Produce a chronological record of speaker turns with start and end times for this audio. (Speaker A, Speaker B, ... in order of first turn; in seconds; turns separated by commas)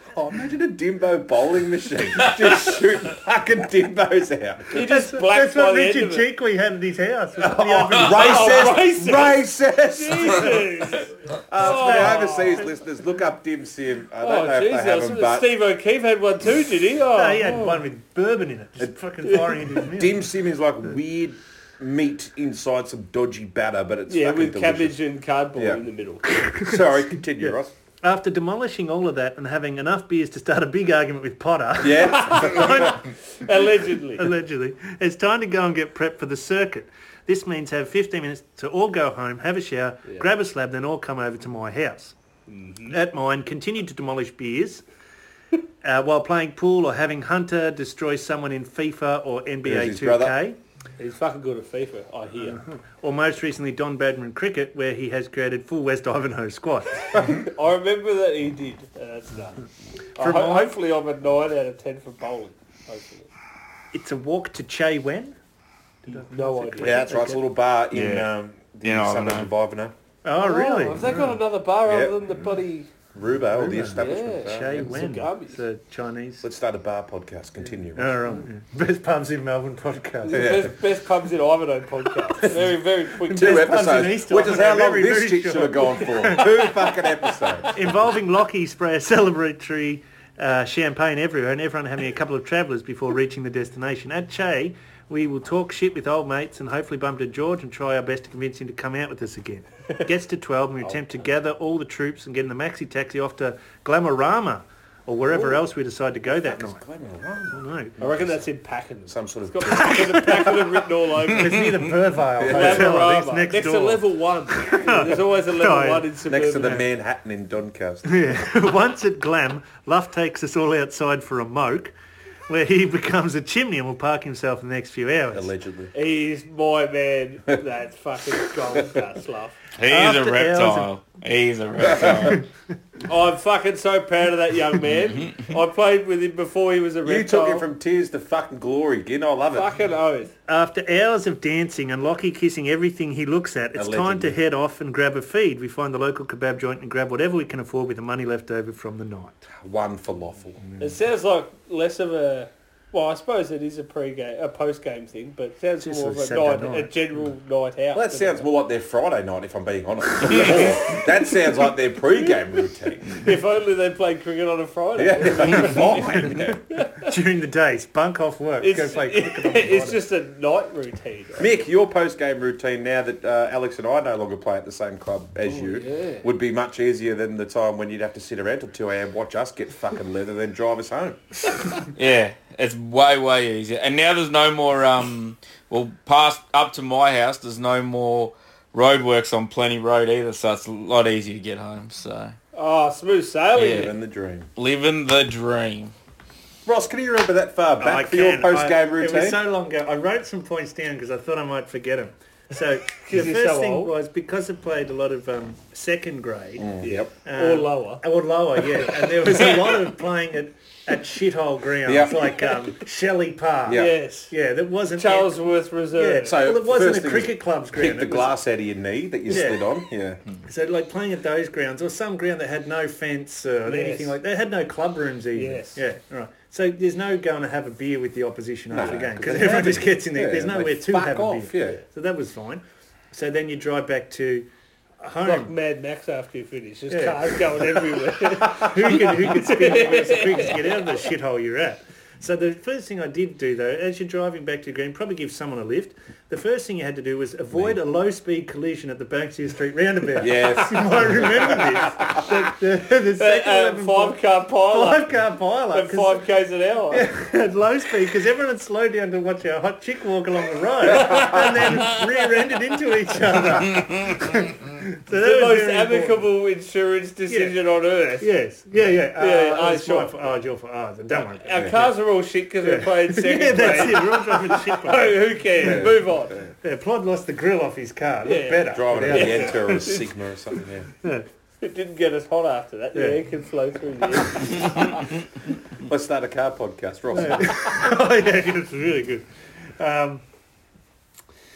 Speaker A: 0.1-4.8, Speaker B: 4.7-6.3, Speaker C: 4.8-8.8, Speaker A: 7.4-10.9, Speaker B: 8.0-9.4, Speaker B: 9.9-12.7, Speaker A: 11.5-15.5, Speaker C: 11.6-12.7, Speaker B: 14.2-17.8, Speaker C: 17.1-20.2, Speaker A: 19.8-25.0, Speaker B: 24.1-26.4, Speaker A: 25.5-25.9, Speaker C: 26.4-26.8, Speaker A: 26.4-27.7, Speaker C: 27.4-33.1, Speaker A: 31.8-32.9, Speaker B: 32.0-34.4, Speaker C: 34.2-42.1, Speaker B: 42.5-43.0, Speaker C: 42.9-44.8, Speaker C: 45.8-50.6, Speaker A: 49.6-50.4, Speaker B: 51.0-52.6, Speaker C: 52.5-57.2, Speaker A: 57.1-57.4, Speaker B: 57.1-59.6, Speaker B: 60.2-63.3, Speaker C: 60.2-60.8, Speaker C: 63.9-65.4, Speaker C: 66.1-67.4, Speaker B: 66.2-67.2, Speaker A: 66.8-69.9, Speaker D: 67.9-68.3, Speaker D: 68.8-69.5, Speaker C: 70.2-71.4, Speaker B: 70.4-72.9, Speaker A: 71.8-72.2, Speaker A: 73.1-74.9, Speaker C: 73.5-76.5, Speaker B: 74.0-75.6, Speaker A: 76.4-78.1, Speaker C: 77.9-80.7, Speaker B: 80.2-83.8, Speaker A: 80.3-80.8, Speaker C: 83.2-86.8, Speaker A: 83.3-87.8, Speaker C: 87.7-106.8, Speaker B: 105.3-105.6, Speaker A: 106.3-108.5, Speaker C: 107.5-108.0, Speaker B: 108.0-111.9, Speaker A: 109.1-110.6, Speaker C: 109.7-116.1, Speaker A: 112.4-113.0, Speaker B: 112.4-116.9, Speaker A: 116.2-118.2, Speaker C: 118.0-121.9, Speaker C: 122.5-125.5, Speaker A: 125.3-125.9, Speaker B: 125.9-129.6, Speaker A: 128.6-129.0, Speaker D: 129.8-132.5, Speaker C: 129.8-130.9, Speaker A: 131.9-132.3, Speaker B: 133.0-137.7, Speaker A: 137.0-139.7, Speaker B: 139.5-140.3, Speaker C: 140.5-149.5, Speaker A: 143.8-144.4, Speaker A: 149.6-150.6, Speaker B: 150.8-158.4, Speaker C: 155.8-157.0, Speaker A: 157.9-163.3, Speaker B: 160.3-161.0, Speaker B: 163.1-167.1, Speaker A: 164.9-166.6, Speaker C: 165.6-170.0, Speaker B: 168.6-171.6, Speaker A: 171.4-181.2, Speaker B: 175.5-176.3, Speaker D: 181.9-192.4, Speaker B: 192.5-193.9, Speaker D: 193.6-193.9, Speaker A: 193.6-194.5, Speaker D: 194.6-195.9, Speaker A: 196.7-199.4, Speaker C: 197.8-206.7, Speaker B: 203.0-203.9, Speaker A: 206.6-207.1, Speaker B: 206.8-208.0, Speaker C: 207.2-215.4, Speaker B: 208.7-209.8, Speaker A: 211.9-212.5, Speaker A: 213.7-213.9, Speaker B: 213.7-214.3, Speaker B: 215.0-216.4, Speaker C: 215.9-218.3, Speaker A: 216.2-220.2, Speaker C: 219.3-219.7, Speaker C: 220.4-234.5, Speaker B: 223.7-224.2, Speaker B: 225.3-225.8, Speaker A: 228.7-231.8, Speaker C: 235.0-235.5, Speaker B: 235.2-241.0, Speaker C: 236.9-256.3, Speaker A: 247.5-247.8, Speaker A: 250.2-252.2, Speaker B: 253.2-255.1, Speaker B: 255.7-257.1, Speaker C: 256.9-266.3, Speaker A: 260.9-261.6, Speaker B: 260.9-262.0, Speaker B: 265.1-268.3, Speaker C: 267.3-267.6, Speaker C: 268.2-271.8, Speaker B: 269.2-270.3, Speaker B: 271.1-276.5, Speaker A: 271.5-271.9, Speaker C: 272.6-275.9, Speaker A: 275.6-276.2, Speaker C: 276.6-279.9, Speaker B: 278.2-280.1, Speaker A: 278.7-280.9, Speaker B: 281.6-285.0, Speaker C: 282.9-283.2, Speaker A: 285.8-287.9, Speaker C: 287.1-289.3, Speaker C: 289.8-290.2